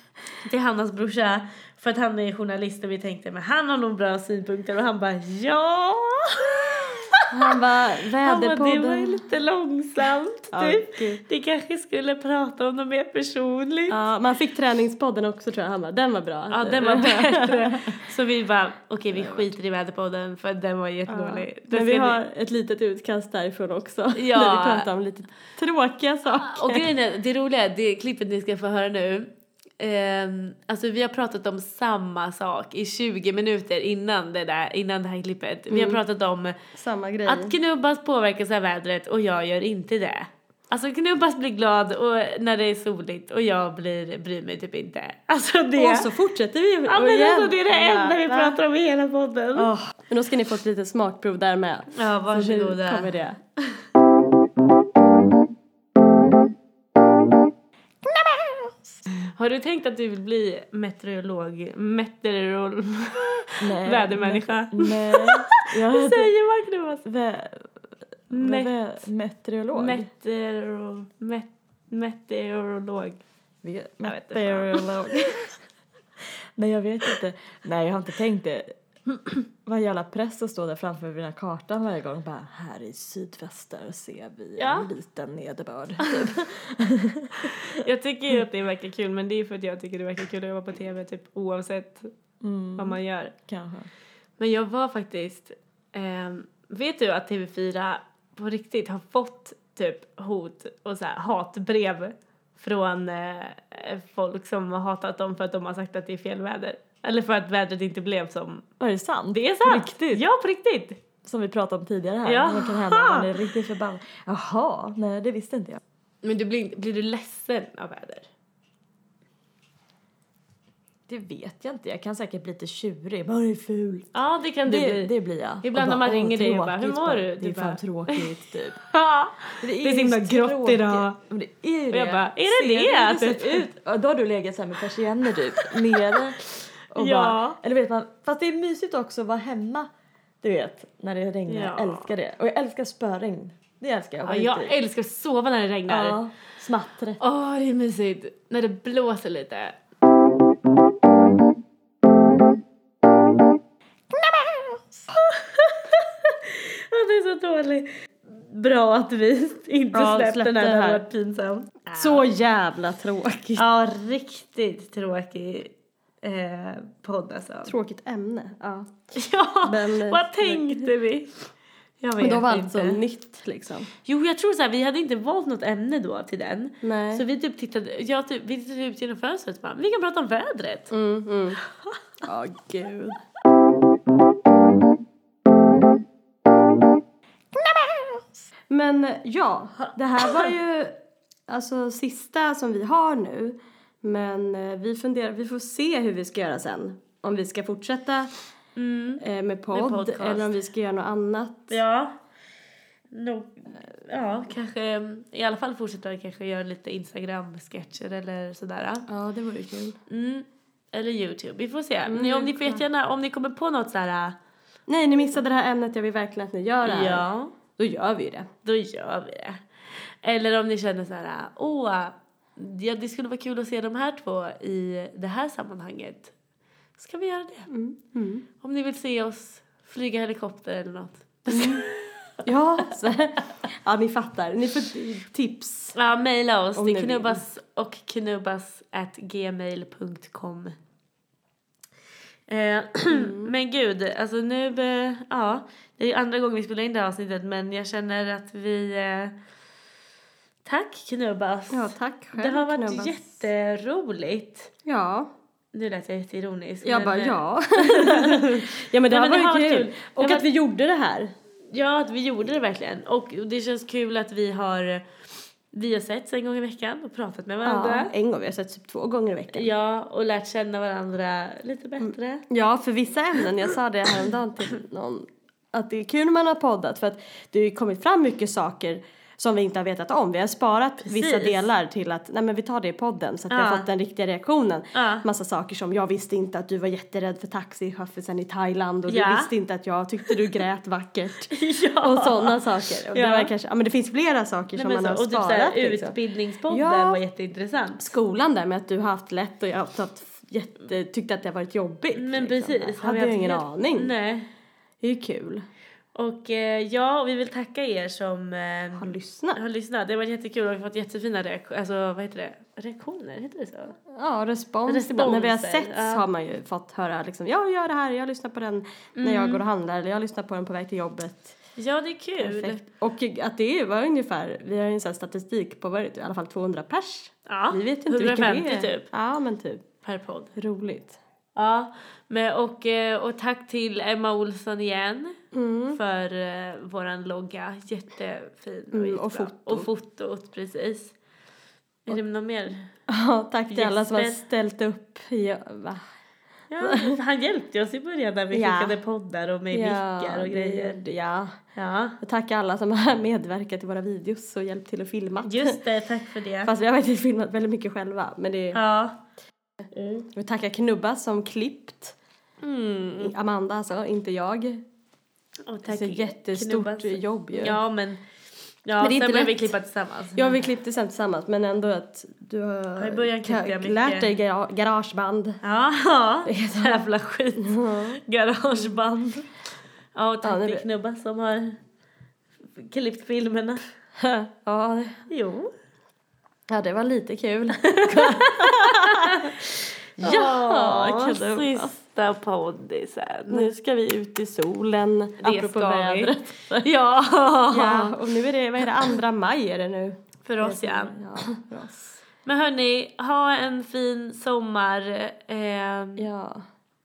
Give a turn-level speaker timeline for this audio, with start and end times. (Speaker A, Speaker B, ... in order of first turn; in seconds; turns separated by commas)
Speaker A: 0.4-7.6, Speaker B: 7.3-9.2, Speaker A: 8.2-14.0, Speaker B: 10.5-11.2, Speaker B: 13.9-17.9, Speaker A: 16.5-22.2, Speaker B: 21.1-26.9, Speaker A: 24.1-24.9, Speaker A: 26.3-36.6, Speaker B: 35.7-36.0, Speaker B: 36.7-37.5, Speaker A: 37.2-46.1, Speaker B: 45.8-48.6, Speaker A: 46.9-49.7, Speaker B: 50.1-53.4, Speaker A: 51.9-53.8, Speaker A: 59.2-67.0, Speaker C: 63.6-66.3, Speaker C: 67.0-67.7, Speaker A: 68.3-68.7, Speaker C: 68.3-70.1, Speaker A: 69.7-73.2, Speaker C: 73.6-75.5, Speaker A: 74.0-74.9, Speaker C: 76.6-78.7, Speaker C: 79.3-87.7, Speaker A: 84.6-84.9, Speaker A: 87.4-92.1, Speaker C: 92.4-93.9, Speaker A: 92.8-93.3, Speaker A: 94.4-108.6, Speaker C: 108.8-110.2, Speaker A: 109.3-111.0, Speaker C: 111.2-115.8, Speaker A: 112.2-113.3, Speaker A: 116.2-118.3, Speaker C: 121.1-124.1, Speaker A: 124.1-128.3, Speaker C: 124.7-128.8, Speaker A: 128.9-131.2, Speaker C: 129.6-139.9, Speaker A: 131.9-133.7, Speaker A: 135.6-136.2, Speaker A: 137.0-137.6, Speaker C: 140.4-144.7, Speaker A: 141.5-142.1, Speaker A: 144.2-146.2, Speaker C: 145.9-147.2, Speaker A: 147.2-149.8, Speaker A: 155.1-162.2, Speaker B: 159.9-161.0, Speaker B: 161.9-163.6, Speaker A: 163.6-167.7, Speaker B: 167.7-168.9, Speaker A: 169.1-171.4, Speaker B: 169.6-170.9, Speaker A: 172.0-173.0, Speaker B: 172.2-173.9, Speaker A: 174.0-180.9, Speaker B: 176.8-177.2, Speaker B: 180.9-181.6, Speaker B: 182.2-183.2, Speaker B: 188.7-190.9, Speaker B: 191.5-198.3, Speaker A: 198.8-200.6, Speaker B: 199.2-201.7, Speaker A: 201.7-202.2, Speaker A: 203.1-209.1, Speaker B: 209.1-210.0, Speaker A: 210.1-214.4, Speaker B: 212.1-212.8, Speaker B: 214.9-218.5, Speaker A: 216.8-217.5, Speaker A: 218.6-226.3, Speaker A: 227.0-227.7, Speaker B: 227.7-228.4, Speaker A: 228.6-232.1, Speaker B: 231.5-231.8, Speaker B: 232.4-235.9, Speaker A: 235.9-240.8, Speaker B: 236.8-237.4, Speaker A: 242.5-249.3, Speaker B: 243.1-243.5, Speaker A: 250.6-254.7, Speaker B: 251.7-253.2, Speaker B: 254.8-255.3, Speaker A: 255.7-260.5, Speaker B: 256.8-261.3, Speaker A: 261.7-265.0, Speaker A: 265.7-268.1, Speaker B: 267.6-269.7, Speaker A: 269.5-272.4, Speaker B: 272.0-296.2, Speaker A: 281.0-281.6, Speaker A: 283.5-283.9, Speaker A: 284.9-285.2, Speaker A: 289.1-289.5, Speaker A: 291.5-293.5, Speaker A: 294.7-298.1, Speaker B: 296.7-297.2, Speaker B: 298.0-304.1, Speaker A: 302.1-304.5, Speaker B: 305.0-305.6, Speaker A: 306.1-314.0, Speaker B: 308.9-309.6, Speaker B: 314.1-321.5, Speaker A: 314.9-316.2, Speaker A: 319.2-319.6, Speaker A: 321.8-322.8, Speaker B: 322.4-329.8, Speaker A: 327.5-329.1, Speaker A: 330.0-330.5, Speaker B: 330.6-331.2, Speaker A: 331.6-335.4, Speaker B: 335.5-336.0, Speaker A: 335.9-341.1, Speaker B: 338.9-339.9, Speaker A: 342.1-342.9, Speaker B: 343.1-346.0, Speaker A: 343.7-344.4, Speaker A: 346.7-351.0, Speaker B: 346.8-347.2, Speaker B: 348.5-349.0, Speaker B: 349.7-351.6, Speaker A: 351.7-352.2, Speaker B: 352.2-355.8, Speaker A: 355.4-356.7, Speaker B: 356.6-358.8, Speaker A: 358.7-359.2, Speaker A: 359.9-360.2, Speaker B: 360.3-362.2, Speaker A: 362.6-363.3, Speaker B: 363.2-364.8, Speaker A: 365.7-368.2, Speaker B: 365.9-367.8, Speaker A: 368.8-370.6, Speaker B: 369.0-369.7, Speaker B: 370.3-375.6, Speaker A: 373.0-374.3, Speaker A: 375.6-379.5, Speaker B: 376.4-377.1, Speaker B: 377.6-378.2, Speaker A: 380.1-381.8, Speaker B: 380.4-380.8, Speaker A: 382.8-383.8, Speaker B: 384.2-385.2, Speaker A: 385.3-385.7, Speaker B: 386.7-391.9, Speaker A: 387.8-389.6, Speaker A: 390.2-393.7, Speaker B: 393.5-396.9, Speaker A: 395.4-398.2, Speaker B: 397.7-402.2, Speaker A: 400.4-401.2, Speaker A: 402.4-406.3, Speaker B: 406.2-406.6